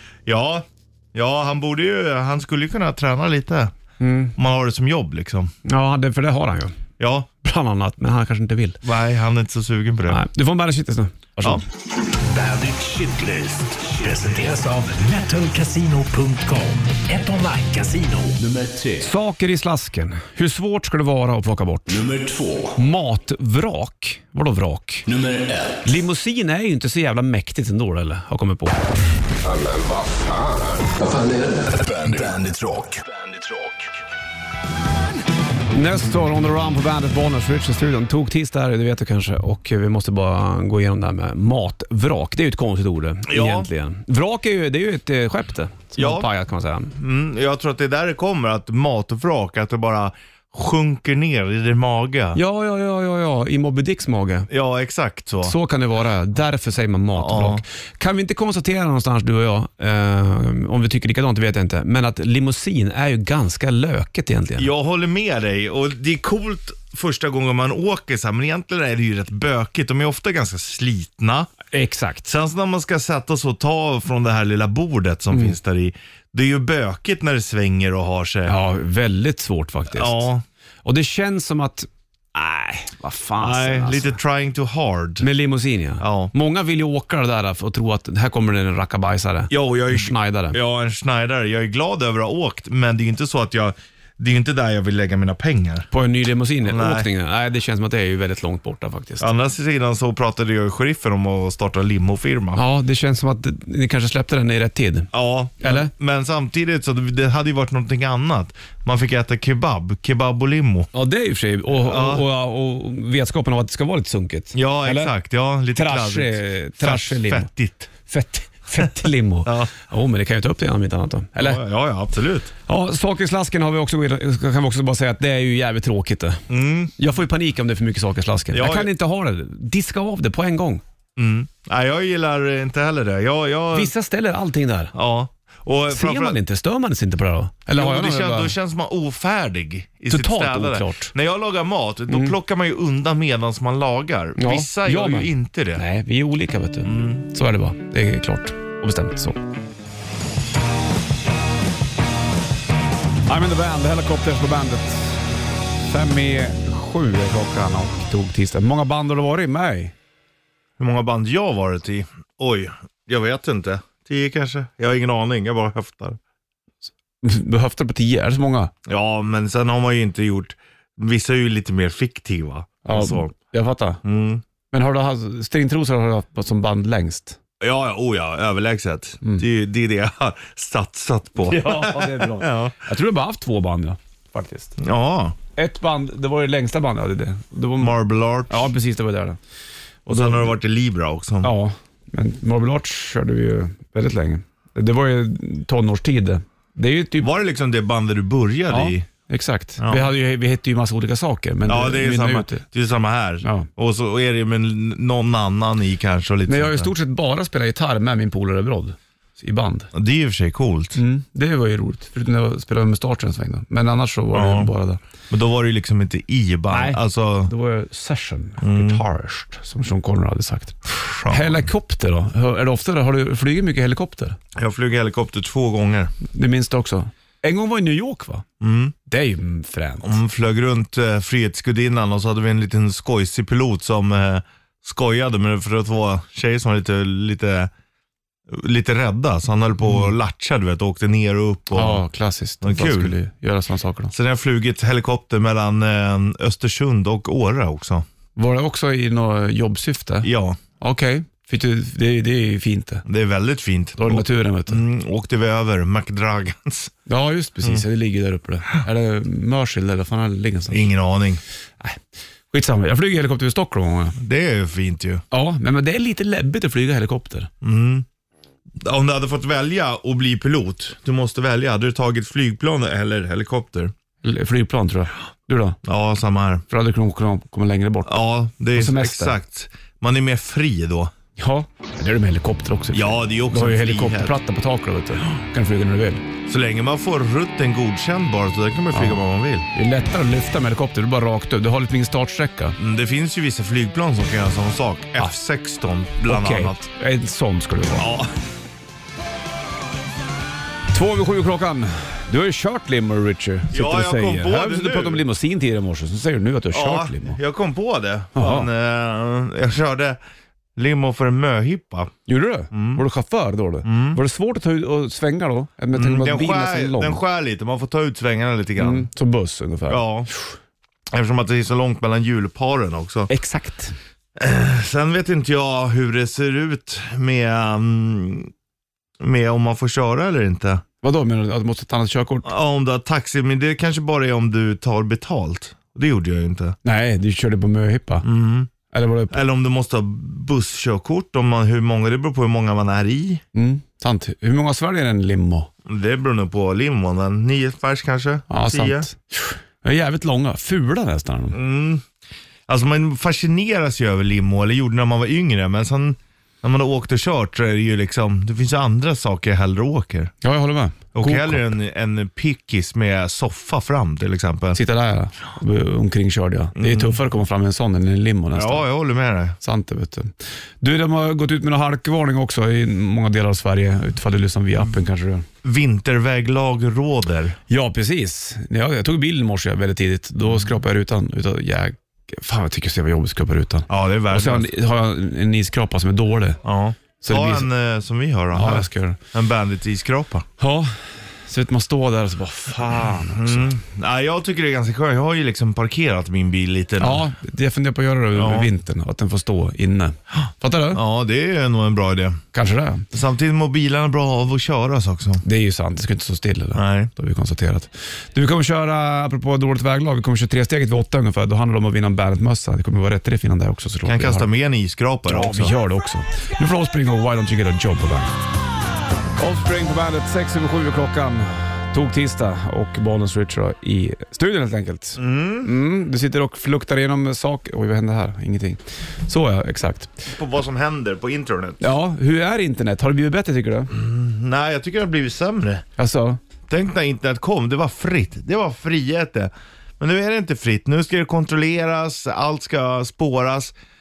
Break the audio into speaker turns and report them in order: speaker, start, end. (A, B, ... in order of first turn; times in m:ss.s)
0:00.3-0:03.7 A
0:04.0-0:04.4 B
0:04.4-0:05.5 A
0:05.6-0:06.8 B
0:07.0-0:07.3 A
0:07.4-0:08.8 B
0:08.8-0:10.2 A
0:10.1-0:11.6 B
0:12.3-0:19.0 C
0:19.0-0:22.0 B
0:21.9-0:22.7 C
0:22.8-0:25.0 B
0:25.1-0:25.8 C
0:25.8-0:28.8 B
0:29.4-0:33.9 C
0:35.7-0:46.9 B
0:43.3-0:43.7 A
0:46.0-0:46.3 A
0:47.0-0:52.4 A
0:52.4-0:54.5 B
0:54.5-0:55.6 A
0:55.4-1:04.7 B
0:57.2-0:57.6 A
1:04.6-1:11.5 A
1:11.7-1:12.3 B
1:12.3-1:18.6 A
1:18.5-1:20.3 B
1:19.9-1:20.4 A
1:20.8-1:24.1 B
1:23.4-1:25.3 A
1:25.2-1:30.6 B
1:26.0-1:26.3 A
1:29.5-1:35.9 A
1:35.9-1:39.3 B
1:36.6-1:37.1 A
1:39.2-1:42.6 A
1:42.6-1:45.9 B
1:45.1-1:50.9 A
1:50.9-1:55.1 B
1:51.8-1:52.3 A
1:54.5-1:57.9 A
1:55.8-1:57.5 B
1:58.0-2:01.6 B
1:59.5-1:59.7 A
2:01.4-2:02.5 A
2:02.7-2:06.4 B
2:06.5-2:07.0 A
2:07.0-2:10.8 B
2:08.5-2:08.9 A
2:11.2-2:13.9 A
2:13.7-2:14.9 B
2:14.9-2:16.4 A
2:15.9-2:18.5 B
2:17.7-2:25.8 A
2:20.1-2:21.1 B
2:22.1-2:22.4 B
2:24.4-2:29.4 B
2:26.8-2:27.2 A
2:33.3-2:35.2 B
2:35.8-2:39.9 B
2:40.8-2:46.2 A
2:47.2-2:48.7 B
2:48.9-2:53.4 A
2:52.9-2:54.0 B
2:54.0-2:54.4 A
2:54.7-2:57.4 B
2:57.6-3:02.8 A
3:01.4-3:04.8 B
3:04.8-3:05.4 A
3:05.6-3:08.0 B
3:07.8-3:08.6 A
3:08.5-3:09.4 B
3:10.1-3:10.6 B
3:10.1-3:11.5 A
3:11.4-3:17.3 B
3:17.2-3:19.1 A
3:18.7-3:22.6 B
3:19.8-3:20.1 A
3:21.7-3:26.9 A
3:23.4-3:23.7 B
3:26.5-3:29.9 B
3:29.9-3:31.0 A
3:31.0-3:35.0 B
3:34.3-3:34.7 A
3:35.3-3:37.5 A
3:36.7-3:44.4 B
3:38.6-3:39.0 A
3:40.9-3:41.7 A
3:44.6-3:46.1 A
3:46.3-3:48.4 B
3:48.6-3:49.0 A
3:49.1-3:50.2 B
3:50.0-3:57.7 A
3:58.5-4:02.0 A
3:59.8-4:00.1 B
4:01.7-4:04.1 B
4:02.6-4:03.2 A
4:04.1-4:08.0 A
4:08.4-4:10.3 B
4:10.2-4:10.6 A
4:10.8-4:13.0 B
4:13.1-4:16.9 A
4:14.0-4:14.8 B
4:17.1-4:20.9 B
4:20.7-4:21.4 A
4:22.5-4:24.2 B
4:24.2-4:25.2 A
4:25.3-4:27.5 B
4:27.6-4:28.1 A
4:28.8-4:33.9 A
4:34.2-4:35.8 B
4:35.8-4:36.6 A
4:36.7-4:38.2 B
4:38.1-4:41.1 A
4:38.7-4:39.4 B
4:41.4-4:46.2 B
4:42.9-4:44.4 A
4:46.5-4:49.7 A
4:49.7-4:52.8 B
4:52.8-4:56.8 A
4:56.2-4:58.1 B
4:58.0-4:58.3 A
5:00.9-5:07.4 B
5:03.7-5:05.2 A
5:06.7-5:10.2 A
5:08.4-5:08.7 B
5:10.8-5:12.1 A
5:12.3-5:17.2 B
5:12.7-5:13.0 A
5:13.8-5:14.2 A
5:15.9-5:19.1 A
5:18.8-5:20.6 B
5:19.9-5:20.3 A
5:21.1-5:23.3 A
5:23.3-5:24.0 B
5:24.4-5:28.5 A
5:29.2-5:30.8 A
5:31.0-5:32.5 B
5:32.4-5:36.8 A
5:36.8-5:38.2 B
5:38.2-5:38.7 A
5:38.9-5:39.3 B
5:39.3-5:43.4 A
5:43.5-5:45.7 B
5:45.9-5:49.1 A
5:48.5-5:51.6 B
5:51.5-5:52.1 A
5:52.7-6:00.3 A
6:00.4-6:01.7 B
6:01.1-6:04.8 A
6:04.8-6:08.9 B
6:06.8-6:07.2 A
6:08.5-6:09.6 A
6:09.6-6:15.5 B
6:15.6-6:17.6 A
6:17.7-6:26.6 B
6:23.9-6:24.7 A
6:26.6-6:30.5 A
6:27.2-6:27.7 B
6:28.5-6:29.2 B
6:30.6-6:33.7 B
6:33.2-6:37.3 A
6:37.0-6:41.0 B
6:38.3-6:38.7 A
6:40.9-6:42.4 A
6:42.5-6:43.0 B
6:43.1-6:45.4 A
6:45.4-6:54.5 B
6:46.8-6:47.1 A
6:54.1-6:55.8 A
6:55.3-6:58.4 B
6:59.4-7:10.2 B
7:05.2-7:05.7 A
7:10.3-7:11.9 A
7:11.8-7:13.9 B
7:13.9-7:15.8 A
7:16.0-7:16.4 B
7:16.7-7:23.7 A